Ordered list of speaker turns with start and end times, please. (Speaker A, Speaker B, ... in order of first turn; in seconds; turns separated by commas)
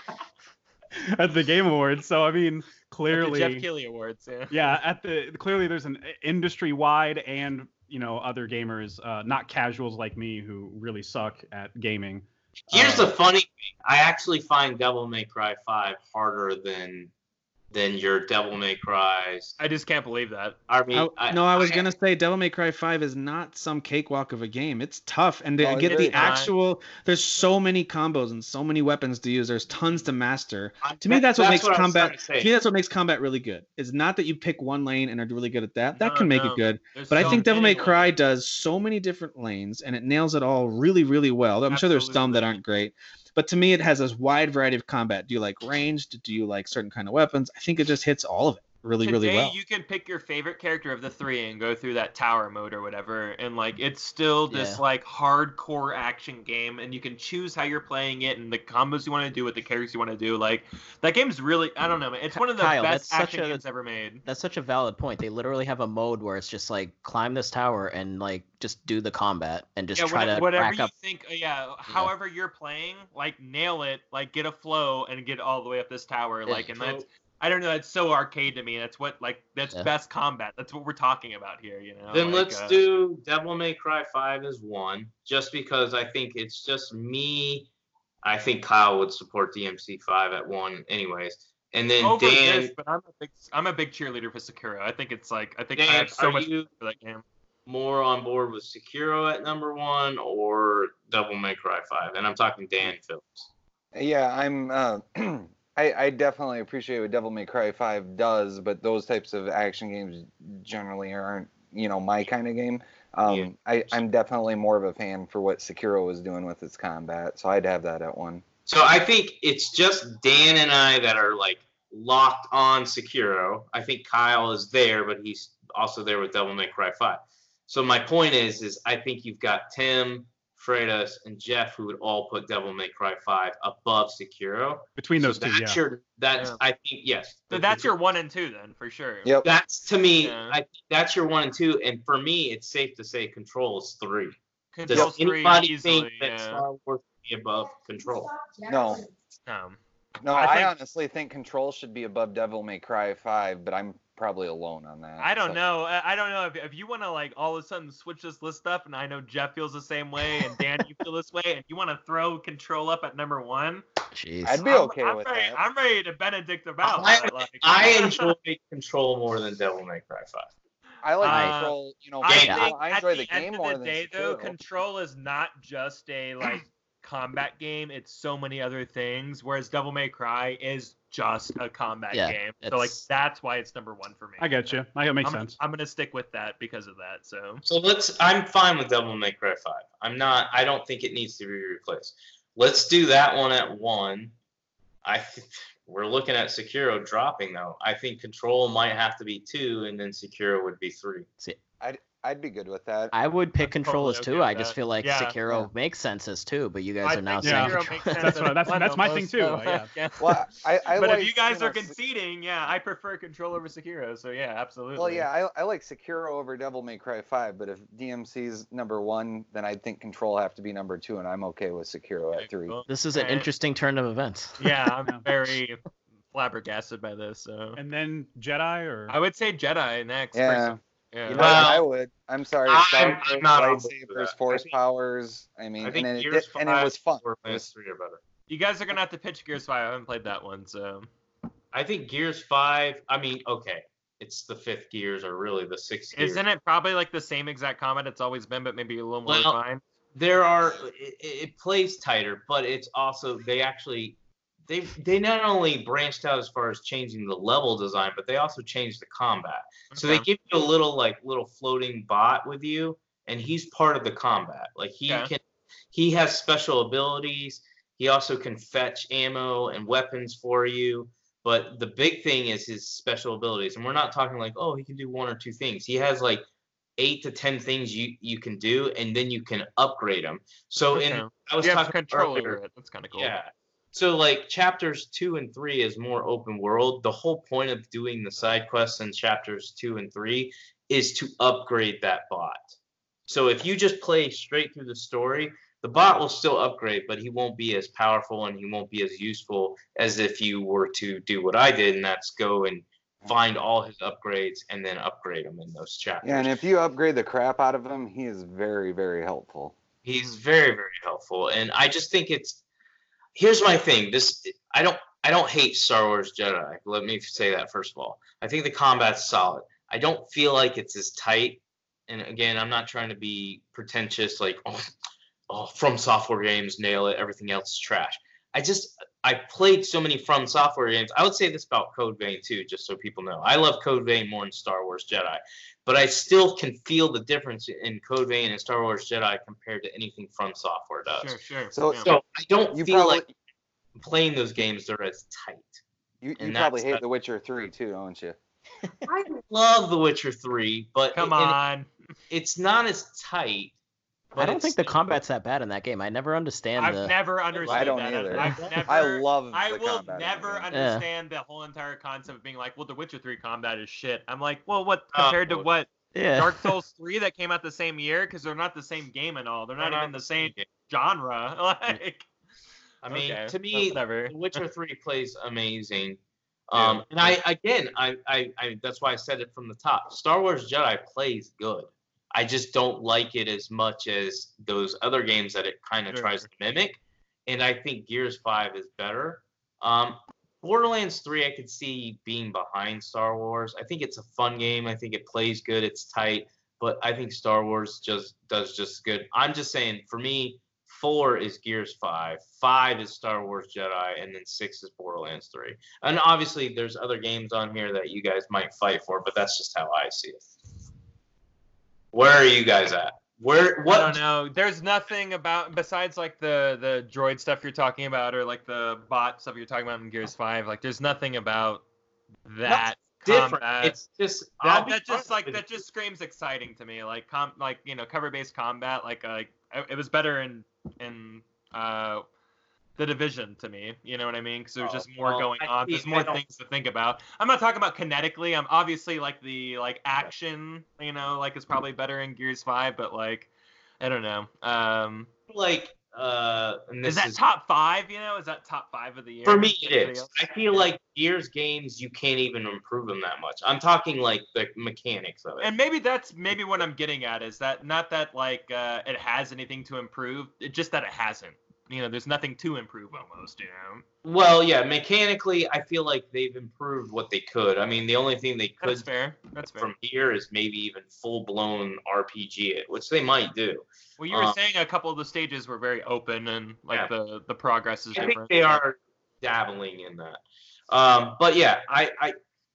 Speaker A: 1.0-3.7, Speaker B: 3.1-4.7, Speaker A: 4.5-13.1, Speaker C: 12.7-17.1, Speaker C: 17.7-19.6, Speaker B: 19.6-20.6, Speaker C: 20.7-21.9, Speaker D: 20.9-49.6, Speaker E: 25.6-26.4, Speaker B: 25.8-26.5, Speaker C: 30.8-32.5, Speaker B: 36.0-38.2, Speaker B: 41.7-42.6, Speaker B: 49.0-64.2, Speaker F: 54.5-54.8, Speaker F: 62.3-63.6, Speaker F: 64.2-70.9, Speaker B: 70.0-82.8, Speaker C: 76.7-77.0, Speaker C: 82.1-87.7, Speaker C: 88.2-92.7, Speaker B: 92.0-97.2, Speaker C: 95.8-96.7, Speaker C: 97.7-103.5, Speaker E: 104.0-118.4, Speaker C: 113.2-114.0, Speaker C: 118.7-137.9, Speaker A: 135.0-135.8, Speaker B: 137.5-139.3, Speaker C: 139.4-148.6, Speaker B: 140.2-140.6, Speaker B: 144.7-146.6, Speaker E: 148.7-149.0, Speaker B: 149.5-149.8, Speaker E: 150.2-155.6, Speaker B: 150.3-150.7, Speaker B: 155.2-163.8, Speaker F: 164.1-164.6, Speaker E: 164.4-165.6, Speaker B: 164.6-168.3, Speaker C: 166.8-170.5, Speaker E: 171.0-174.5, Speaker B: 171.2-187.6, Speaker F: 171.2-171.6, Speaker C: 172.3-172.6, Speaker F: 182.1-183.0, Speaker A: 184.4-185.6, Speaker C: 187.6-194.3, Speaker C: 195.0-201.3, Speaker E: 201.8-203.1, Speaker F: 203.1-208.5, Speaker B: 203.6-205.3, Speaker B: 207.0-215.3, Speaker A: 207.4-209.9, Speaker E: 210.2-211.9, Speaker E: 214.9-222.8, Speaker B: 222.3-223.5, Speaker F: 222.9-224.7, Speaker B: 224.6-225.8, Speaker B: 226.3-227.8, Speaker A: 227.8-229.2, Speaker B: 229.1-231.5, Speaker E: 230.3-237.7, Speaker C: 231.4-231.8, Speaker C: 232.7-234.8, Speaker C: 235.8-238.2, Speaker B: 238.5-241.1, Speaker C: 241.7-246.4, Speaker B: 246.2-249.8, Speaker C: 249.3-249.6, Speaker C: 250.2-254.2, Speaker C: 254.7-265.4, Speaker B: 259.9-260.3, Speaker C: 265.9-276.4, Speaker C: 277.0-282.6, Speaker B: 280.9-283.3, Speaker C: 283.1-292.7, Speaker C: 293.3-306.6, Speaker E: 306.2-309.8, Speaker C: 310.0-312.6, Speaker C: 313.4-324.9, Speaker C: 325.5-341.4, Speaker B: 341.2-342.1, Speaker E: 341.7-342.2, Speaker C: 342.0-343.2, Speaker E: 342.7-343.3, Speaker C: 344.0-345.8, Speaker E: 346.2-348.4, Speaker C: 346.4-347.0, Speaker C: 349.1-351.6, Speaker B: 351.1-351.9, Speaker C: 352.3-353.7, Speaker B: 354.4-354.9, Speaker F: 354.4-357.1, Speaker B: 356.8-372.3, Speaker C: 357.6-358.9, Speaker E: 357.6-360.7, Speaker F: 360.7-361.1, Speaker C: 365.1-365.7, Speaker F: 366.1-366.7, Speaker C: 369.8-370.7, Speaker C: 373.0-410.5, Speaker B: 373.1-374.6, Speaker B: 376.8-377.4, Speaker B: 386.1-386.5, Speaker C: 412.1-414.2, Speaker B: 413.9-421.8, Speaker B: 422.5-424.0, Speaker C: 422.7-425.7, Speaker B: 424.6-432.2, Speaker B: 433.0-443.5, Speaker C: 434.8-436.4, Speaker B: 444.0-445.3, Speaker C: 445.5-447.4, Speaker B: 447.1-450.9, Speaker C: 449.4-455.7, Speaker B: 455.6-464.1, Speaker C: 464.2-469.1, Speaker B: 468.8-469.9, Speaker C: 469.6-474.6, Speaker B: 474.2-478.8, Speaker C: 478.1-482.4